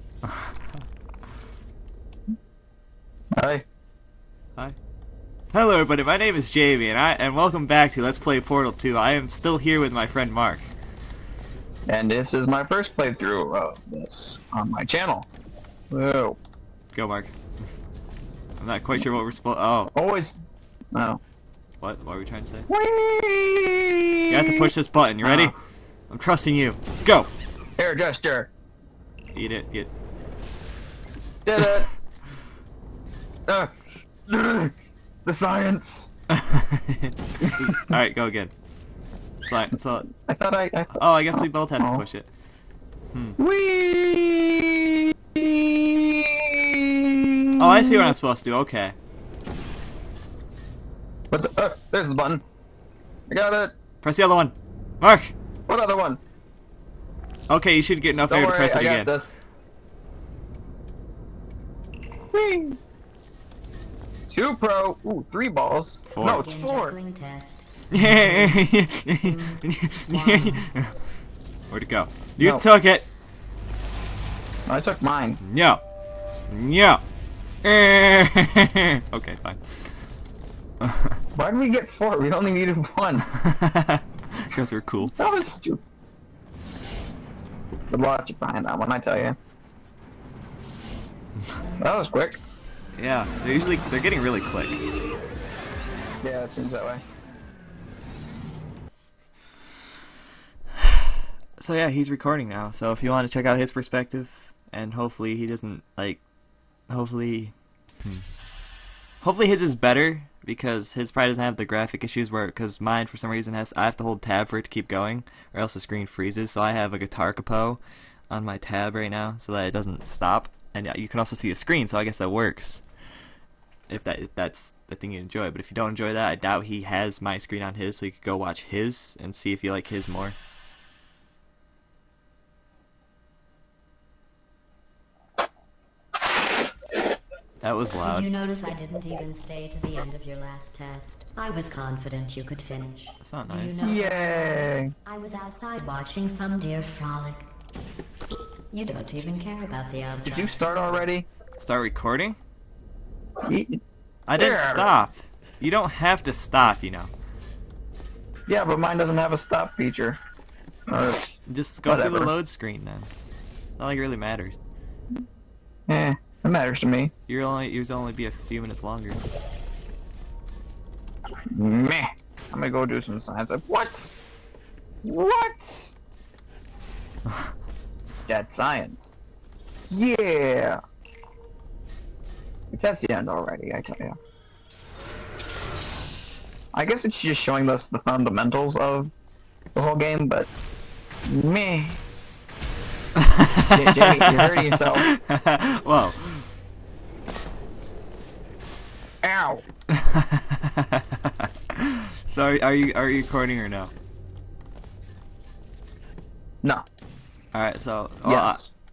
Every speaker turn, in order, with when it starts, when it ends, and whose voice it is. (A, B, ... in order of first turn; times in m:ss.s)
0:00.2-0:00.8 A
0:03.4-0:03.6 B
0:05.5-0:10.7 A
0:11.9-0:15.3 B
0:15.9-0:16.4 B
0:16.9-0:17.3 A
0:18.6-0:19.9 A
0:19.9-0:20.4 B
0:20.9-0:21.2 B
0:21.8-0:22.7 A
0:22.7-0:24.7 B
0:24.3-0:25.5 A
0:25.2-0:25.5 B
0:26.1-0:27.3 A
0:27.8-0:28.5 B
0:29.3-0:29.9 A
0:31.4-0:31.9 B
0:33.5-0:33.7 B
0:34.3-0:34.7 B
0:35.2-0:36.1 B
0:36.3-0:38.5 A
0:39.4-0:40.1 A
0:40.2-0:42.0 B
0:40.9-0:42.3 A
0:43.1-0:43.4 A
0:43.4-0:48.1 B
0:47.6-0:49.0 A
0:51.3-0:52.4 B
0:53.3-0:53.7 B
0:54.0-0:55.3 A
0:55.7-0:56.2 B
0:57.5-0:59.1 A
0:58.3-0:59.4 B
1:02.3-1:02.8 B
1:04.3-1:07.0 B
1:06.1-1:06.5 A
1:06.2-1:08.6 C
1:07.9-1:10.9 A
1:09.2-1:10.6 C
1:11.7-1:13.0 A
1:12.4-1:12.6 B
1:14.6-1:15.4 B
1:15.4-1:17.0 A
1:17.6-1:19.6 A
1:20.8-1:21.2 A
1:21.3-1:23.3 B
1:23.3-1:25.1 A
1:25.0-1:25.8 B
1:27.9-1:29.4 B
1:31.8-1:32.4 B
1:33.0-1:34.8 A
1:36.2-1:37.0 B
1:41.6-1:46.2 A
1:46.9-1:48.2 A
1:49.2-2:02.8 A
2:03.9-2:10.3 A
2:17.6-2:18.3 A
2:18.0-2:27.5 C
2:23.2-2:23.9 A
2:23.8-2:24.9 B
2:28.7-2:30.7 C
2:30.2-2:31.3 B
2:31.6-2:32.4 A
2:33.4-2:33.8 B
2:34.3-2:37.1 A
2:34.3-2:35.0 B
2:38.5-2:40.2 B
2:40.9-2:42.3 B
2:41.4-2:43.1 A
2:43.8-2:44.6 A
2:45.9-2:47.1 B
2:47.3-2:49.2 A
2:51.5-2:54.2 B
2:55.0-2:55.9 B
2:58.3-2:59.2 B
2:59.9-3:00.8 B
3:02.7-3:04.2 B
3:06.7-3:09.1 B
3:09.7-3:10.5 B
3:11.3-3:12.0 B
3:13.2-3:16.5 A
3:13.7-3:15.1 B
3:19.2-3:19.6 B
3:19.9-3:23.9 A
3:27.5-3:28.6 A
3:28.2-3:28.7 B